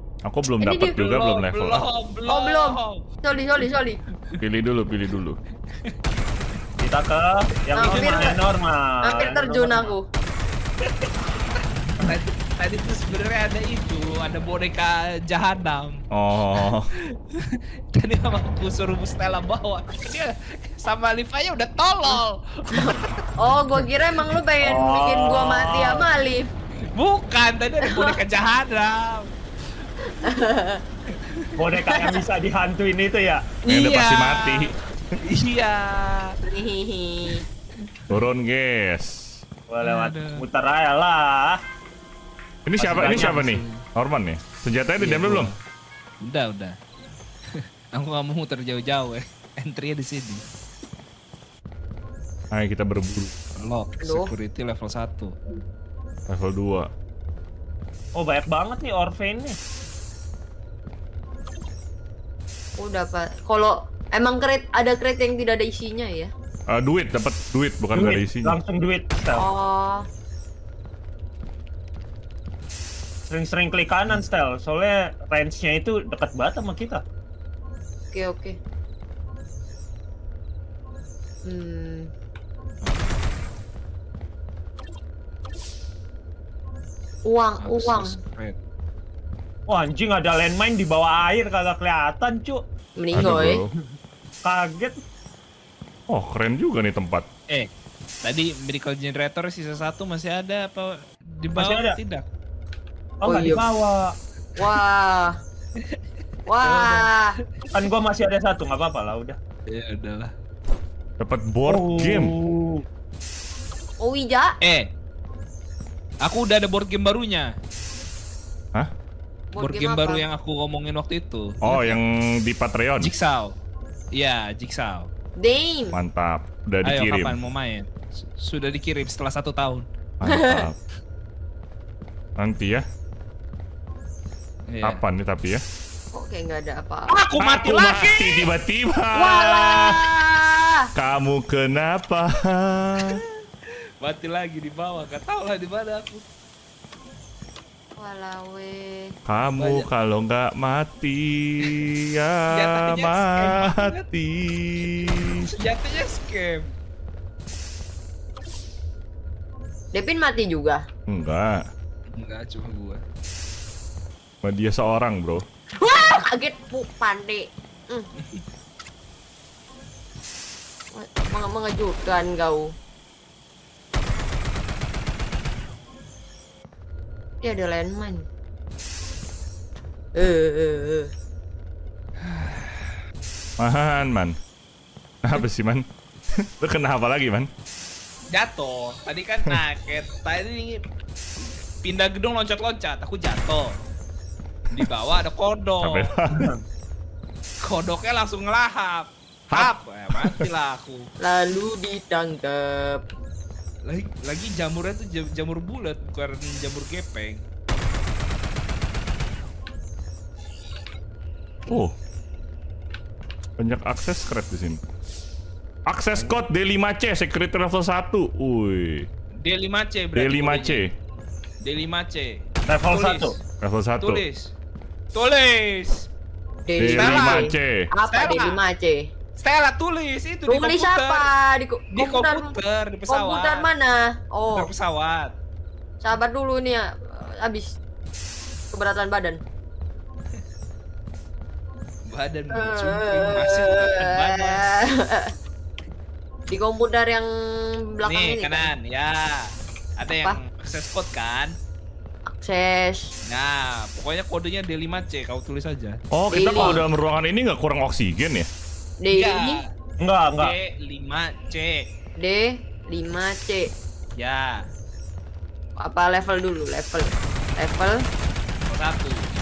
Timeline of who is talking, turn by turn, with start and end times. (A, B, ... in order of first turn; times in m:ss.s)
0:00.3-0:01.8 A
0:00.6-0:03.0 B
0:02.3-0:04.0 C
0:04.4-0:05.4 A
0:05.7-0:06.0 B
0:06.8-0:10.0 D
0:07.8-0:08.2 B
0:07.8-0:08.4 C
0:09.0-0:10.1 C
0:10.8-0:16.0 B
0:16.1-0:16.9 A
0:16.6-0:23.2 B
0:22.7-0:26.5 C
0:24.6-0:26.0 D
0:26.9-0:29.3 B
0:27.8-0:28.2 C
0:30.2-0:30.8 C
0:31.1-0:31.5 B
0:31.6-0:33.4 D
0:31.8-0:32.2 C
0:33.7-0:34.7 B
0:33.7-0:34.7 A
0:35.2-0:36.4 B
0:36.5-0:37.4 C
0:37.4-0:38.1 B
0:38.1-0:39.4 A
0:39.7-0:41.6 D
0:39.8-0:40.4 B
0:42.7-0:45.5 A
0:42.8-0:43.8 B
0:43.0-0:43.4 D
0:45.0-0:45.6 B
0:46.2-0:46.8 B
0:47.5-0:50.4 B
0:52.5-0:53.4 A
0:53.6-0:55.4 B
0:54.0-0:54.3 C
0:56.3-0:56.9 A
0:58.2-0:59.6 D
1:02.8-1:06.3 C
1:06.7-1:08.6 A
1:07.9-1:09.5 D
1:09.4-1:10.1 C
1:13.3-1:17.0 D
1:18.1-1:18.6 C
1:21.5-1:22.1 C
1:22.8-1:23.2 B
1:27.3-1:28.2 C
1:27.6-1:28.6 B
1:29.7-1:32.6 D
1:33.0-1:33.6 C
1:33.1-1:33.7 A
1:34.4-1:35.0 D
1:36.1-1:37.3 A
1:38.2-1:42.2 B
1:41.6-1:42.0 D
1:43.2-1:44.1 D
1:43.2-1:43.6 C
1:44.6-1:45.4 C
1:46.5-1:47.4 C
1:46.6-1:47.1 B
1:47.7-1:49.4 D
1:49.7-1:50.3 B
1:51.2-1:52.3 A
1:51.7-1:52.8 D
1:54.0-1:54.6 C
1:54.6-1:54.9 B
1:56.2-1:57.5 B
1:59.5-2:00.2 C
1:59.6-2:02.0 B
2:01.6-2:03.1 A
2:03.0-2:03.6 B
2:04.1-2:05.1 B
2:05.4-2:06.0 C
2:05.9-2:07.4 A
2:06.8-2:09.9 B
2:10.2-2:10.8 A
2:10.2-2:10.7 C
2:12.4-2:12.8 A
2:14.7-2:15.0 B
2:14.8-2:15.6 A
2:16.1-2:17.2 C
2:17.1-2:18.5 B
2:17.4-2:20.0 A
2:19.2-2:20.9 C
2:21.0-2:23.2 A
2:24.0-2:26.2 B
2:28.0-2:29.2 C
2:29.3-2:35.5 A
2:29.6-2:29.9 B
2:32.5-2:34.0 B
2:34.9-2:36.7 B
2:39.9-2:40.8 C
2:41.1-2:41.6 A
2:42.1-2:43.0 B
2:44.4-2:45.4 A
2:45.8-2:48.1 C
2:50.9-2:52.7 C
2:57.4-2:58.3 C
3:00.2-3:01.1 C
3:02.2-3:02.9 B
3:03.6-3:04.4 A
3:05.2-3:07.5 A
3:08.3-3:10.8 B
3:11.4-3:13.8 B
3:14.7-3:16.1 B
3:15.8-3:16.5 A
3:16.3-3:16.6 D
3:17.6-3:21.1 B
3:19.5-3:20.5 A
3:21.2-3:23.0 C
3:23.8-3:27.4 B
3:31.7-3:32.0 A
3:33.6-3:34.8 A
3:35.9-3:39.1 A
3:39.4-3:40.8 B
3:40.2-3:40.9 A
3:41.6-3:43.4 B
3:42.7-3:43.4 D
3:43.6-3:44.2 A
3:44.0-3:44.5 B
3:45.2-3:46.1 B
3:46.7-3:49.1 C
3:46.8-3:47.9 A
3:46.9-3:47.5 B
3:48.1-3:48.6 B
3:49.4-3:51.3 B
3:50.5-3:52.6 C
3:51.9-3:53.7 B
3:53.1-3:54.7 C
3:54.5-3:55.3 B
3:56.0-3:57.8 C
3:58.7-3:59.4 C
4:02.1-4:04.7 B
4:02.5-4:05.3 C
4:06.5-4:08.7 C
4:08.0-4:11.5 B
4:12.3-4:13.2 C
4:13.3-4:16.0 B
4:16.1-4:18.5 A
4:16.3-4:16.8 C
4:19.0-4:19.6 C
4:19.1-4:19.6 B
4:20.0-4:20.6 D
4:20.4-4:21.8 B
4:22.2-4:23.7 C
4:24.2-4:24.7 B
4:25.8-4:28.1 C
4:28.7-4:29.3 B